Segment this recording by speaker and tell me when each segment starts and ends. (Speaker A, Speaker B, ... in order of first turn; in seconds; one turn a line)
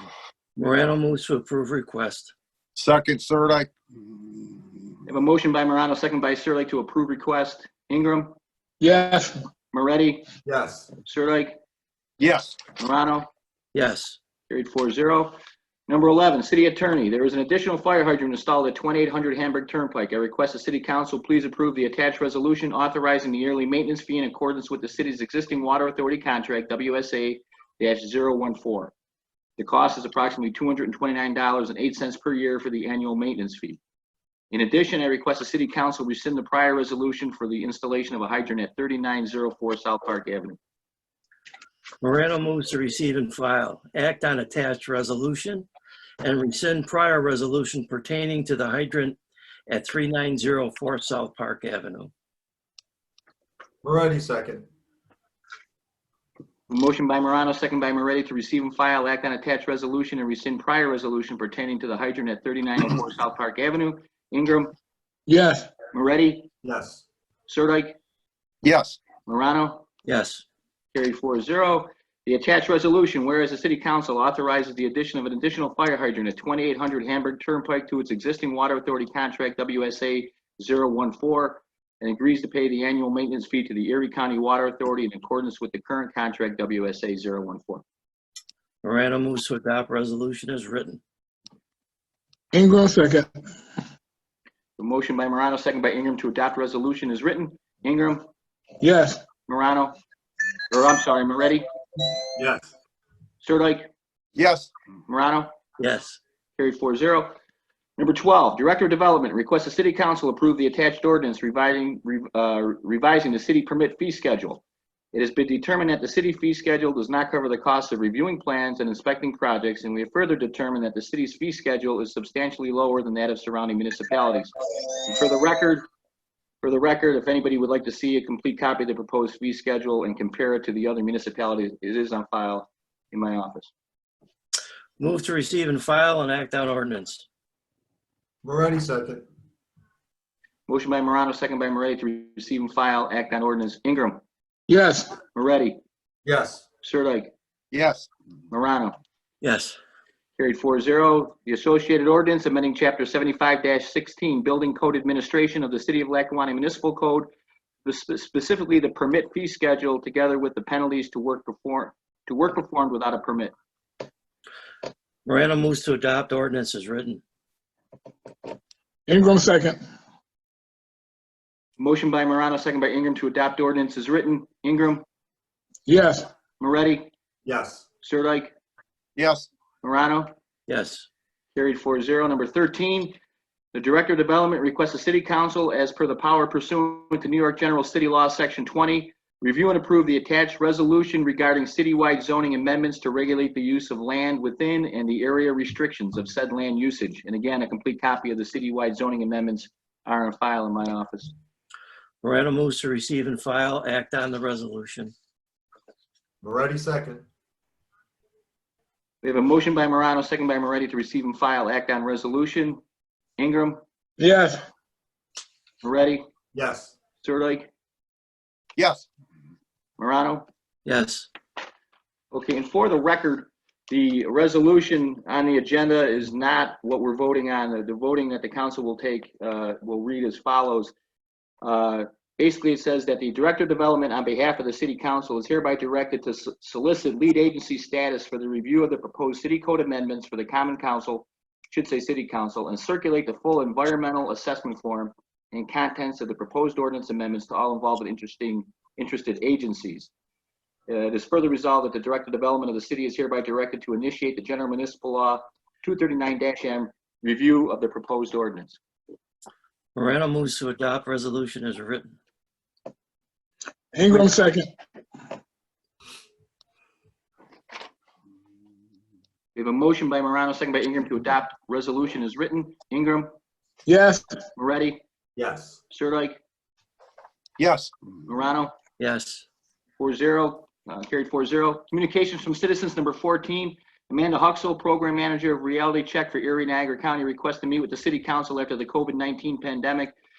Speaker A: 0.6-2.3
Speaker B: 2.8-3.7
Speaker C: 5.1-8.3
Speaker D: 8.8-9.4
Speaker C: 9.7-10.2
Speaker E: 10.5-10.9
Speaker C: 11.1-11.6
Speaker B: 12.2-12.6
Speaker C: 12.8-13.3
Speaker A: 13.7-14.2
Speaker C: 14.5-15.3
Speaker C: 15.9-28.9
Speaker C: 29.6-33.8
Speaker C: 34.5-40.6
Speaker A: 42.0-45.7
Speaker A: 46.2-52.1
Speaker E: 53.8-54.6
Speaker C: 56.7-64.7
Speaker D: 65.3-65.7
Speaker C: 65.9-66.5
Speaker E: 66.6-67.0
Speaker C: 67.5-68.0
Speaker B: 68.6-69.0
Speaker C: 69.3-69.8
Speaker A: 70.1-70.5
Speaker C: 70.9-87.8
Speaker A: 88.8-91.0
Speaker D: 92.5-93.3
Speaker C: 94.8-98.3
Speaker D: 98.8-99.2
Speaker C: 99.5-100.0
Speaker C: 100.7-101.7
Speaker E: 102.3-102.7
Speaker C: 103.4-103.9
Speaker B: 104.4-104.7
Speaker C: 105.1-105.5
Speaker A: 105.8-106.2
Speaker C: 106.6-107.3
Speaker C: 108.0-124.5
Speaker C: 125.0-125.8
Speaker C: 126.6-133.7
Speaker A: 135.0-137.3
Speaker E: 138.4-139.2
Speaker C: 140.7-144.2
Speaker D: 144.7-145.2
Speaker C: 145.3-145.8
Speaker E: 146.2-146.6
Speaker C: 146.8-147.3
Speaker B: 147.7-148.1
Speaker C: 148.5-148.9
Speaker A: 149.4-149.8
Speaker C: 150.4-157.3
Speaker C: 157.8-163.5
Speaker A: 165.3-167.2
Speaker D: 169.1-169.8
Speaker C: 171.8-175.0
Speaker D: 175.9-176.3
Speaker C: 176.6-177.1
Speaker E: 177.4-177.8
Speaker C: 178.0-178.5
Speaker B: 179.2-179.5
Speaker C: 179.8-180.3
Speaker A: 180.7-181.1
Speaker C: 181.6-183.2
Speaker C: 183.7-201.3
Speaker A: 202.2-205.1
Speaker E: 206.4-207.2
Speaker C: 209.2-212.8
Speaker C: 213.4-213.8
Speaker D: 214.2-214.6
Speaker C: 215.8-216.2
Speaker E: 216.5-216.9
Speaker C: 217.2-217.7
Speaker B: 218.8-219.1
Speaker C: 220.0-220.5
Speaker A: 220.9-221.3
Speaker C: 222.3-230.9
Speaker C: 231.6-250.1
Speaker C: 250.9-258.8
Speaker A: 259.9-262.1
Speaker D: 263.9-264.7
Speaker C: 269.6-273.3
Speaker D: 273.9-274.4
Speaker C: 274.6-275.0
Speaker E: 275.4-275.8
Speaker C: 275.9-276.4
Speaker B: 277.6-277.9
Speaker C: 278.3-278.7
Speaker A: 279.0-279.4
Speaker C: 280.0-290.1